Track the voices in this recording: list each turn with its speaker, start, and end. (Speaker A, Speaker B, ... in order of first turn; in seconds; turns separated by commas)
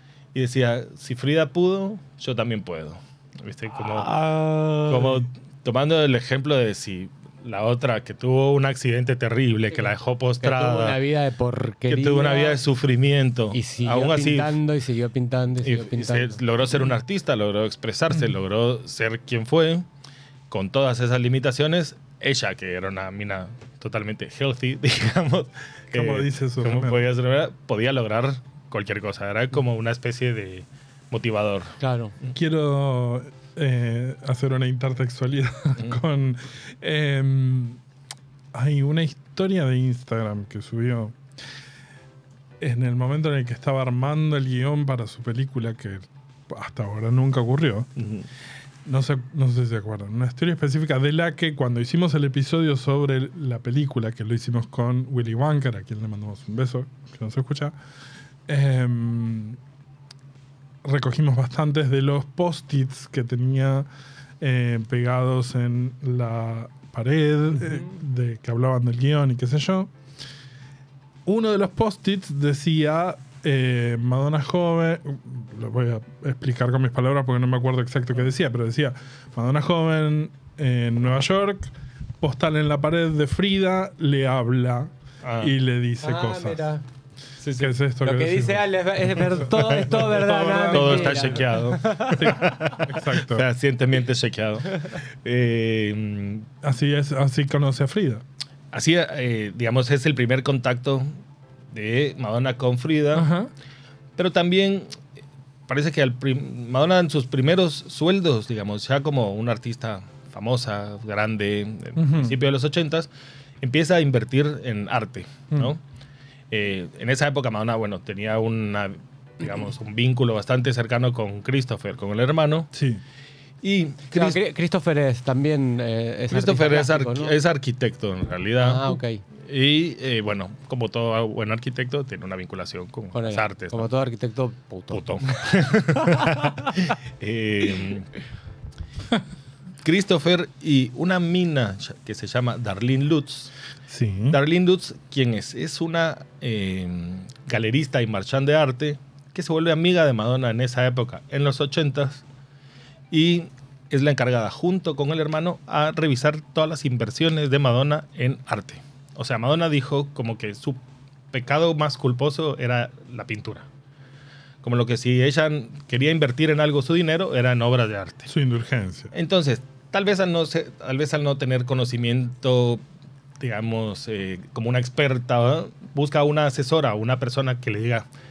Speaker A: 0.3-4.1, Speaker B: 3.7-5.2, Speaker A: 4.9-11.0, Speaker B: 10.4-12.6, Speaker A: 11.9-14.5, Speaker B: 13.5-16.4, Speaker A: 15.6-19.8, Speaker A: 20.5-32.3, Speaker C: 25.9-27.0, Speaker B: 31.8-32.1, Speaker C: 32.3-37.8, Speaker C: 38.5-41.2, Speaker C: 42.6-47.9, Speaker A: 48.0-48.3, Speaker C: 48.8-57.8, Speaker C: 58.5-59.6, Speaker C: 60.8-63.9, Speaker C: 64.4-69.9, Speaker C: 71.2-86.6, Speaker A: 85.2-85.5, Speaker B: 86.0-86.8, Speaker A: 87.4-87.7, Speaker C: 87.6-88.7, Speaker B: 88.0-92.3, Speaker C: 89.3-91.5, Speaker A: 89.7-90.0, Speaker A: 90.7-96.5, Speaker C: 92.2-93.5, Speaker C: 96.6-98.2, Speaker A: 98.7-101.1, Speaker A: 101.7-103.3, Speaker C: 103.1-103.5, Speaker A: 104.2-104.9, Speaker A: 105.7-113.1, Speaker C: 112.0-112.4, Speaker A: 113.6-115.8, Speaker A: 116.5-122.7, Speaker C: 122.7-123.0, Speaker A: 123.6-124.4, Speaker B: 124.1-127.3, Speaker A: 126.3-133.9, Speaker B: 128.6-129.2, Speaker B: 133.1-135.4, Speaker A: 134.9-138.1, Speaker A: 139.8-143.5, Speaker C: 143.9-144.4, Speaker A: 144.3-152.2, Speaker A: 153.1-160.8, Speaker A: 161.3-163.7, Speaker A: 164.6-168.3, Speaker C: 168.3-169.1, Speaker A: 169.1-172.8, Speaker A: 173.4-178.1